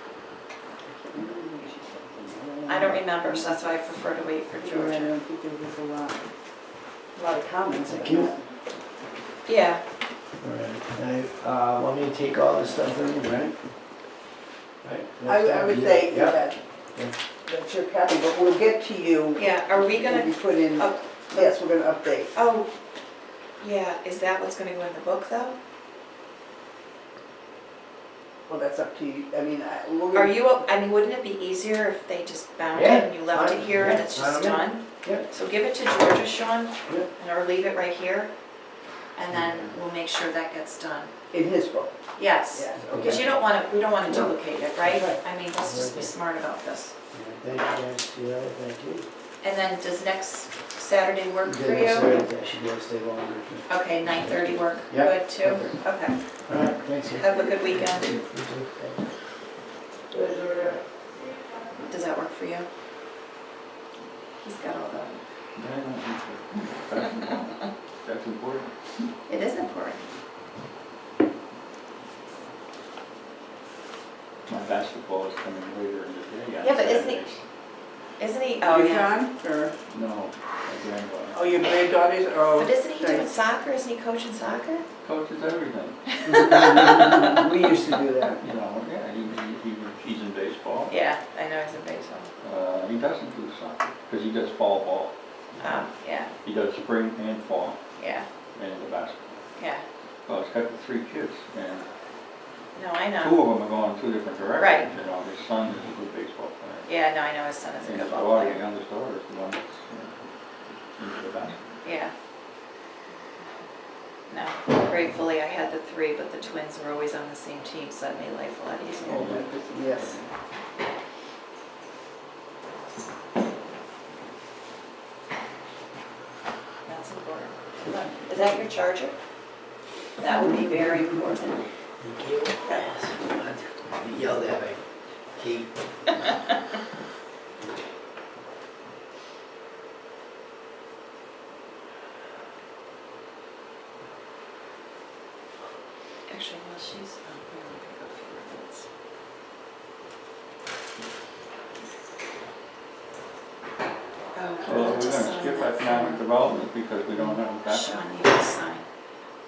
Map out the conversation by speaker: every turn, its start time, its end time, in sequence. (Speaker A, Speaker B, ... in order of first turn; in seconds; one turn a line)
Speaker A: 0.8-3.8
Speaker B: 2.7-5.1
Speaker A: 4.6-6.2
Speaker A: 7.2-8.5
Speaker C: 7.9-8.3
Speaker B: 9.5-9.8
Speaker C: 10.4-13.6
Speaker C: 14.8-17.2
Speaker A: 15.2-16.6
Speaker A: 17.4-22.3
Speaker B: 19.4-21.5
Speaker B: 22.3-22.7
Speaker B: 23.6-25.6
Speaker A: 28.5-30.5
Speaker B: 30.1-38.3
Speaker C: 32.7-35.3
Speaker B: 39.1-41.1
Speaker C: 39.3-39.7
Speaker A: 41.3-42.0
Speaker B: 42.2-46.9
Speaker A: 42.5-43.4
Speaker C: 42.9-43.3
Speaker C: 44.9-46.1
Speaker C: 47.1-49.1
Speaker B: 49.4-52.2
Speaker C: 51.5-55.8
Speaker B: 53.7-56.2
Speaker C: 56.5-59.0
Speaker B: 57.1-58.2
Speaker A: 60.1-60.7
Speaker B: 61.9-62.7
Speaker B: 64.4-65.2
Speaker D: 65.5-68.7
Speaker B: 69.3-70.0
Speaker D: 74.5-77.4
Speaker B: 76.6-77.2
Speaker B: 78.2-79.2
Speaker A: 78.6-79.8
Speaker D: 79.9-81.5
Speaker A: 81.3-83.3
Speaker B: 82.5-84.8
Speaker D: 85.0-86.0
Speaker B: 86.1-87.4
Speaker A: 86.2-88.5
Speaker D: 88.4-90.9
Speaker B: 90.9-92.3
Speaker D: 92.4-95.1
Speaker B: 95.6-96.3
Speaker D: 96.4-97.8
Speaker B: 98.0-98.3
Speaker D: 98.5-99.4
Speaker B: 99.6-99.8
Speaker D: 100.3-101.9
Speaker B: 102.8-103.4
Speaker D: 103.2-106.9
Speaker B: 104.6-104.9
Speaker B: 106.9-108.6
Speaker D: 107.8-110.2
Speaker D: 111.0-111.6
Speaker B: 111.8-112.1
Speaker B: 114.3-119.3
Speaker A: 119.0-120.2
Speaker D: 119.0-120.3
Speaker B: 126.8-129.2
Speaker B: 130.2-131.6
Speaker A: 130.3-131.3
Speaker C: 132.0-134.8
Speaker B: 132.6-132.9
Speaker C: 135.4-135.7
Speaker B: 146.3-148.9
Speaker B: 154.3-156.2
Speaker D: 154.6-158.0
Speaker B: 157.7-158.9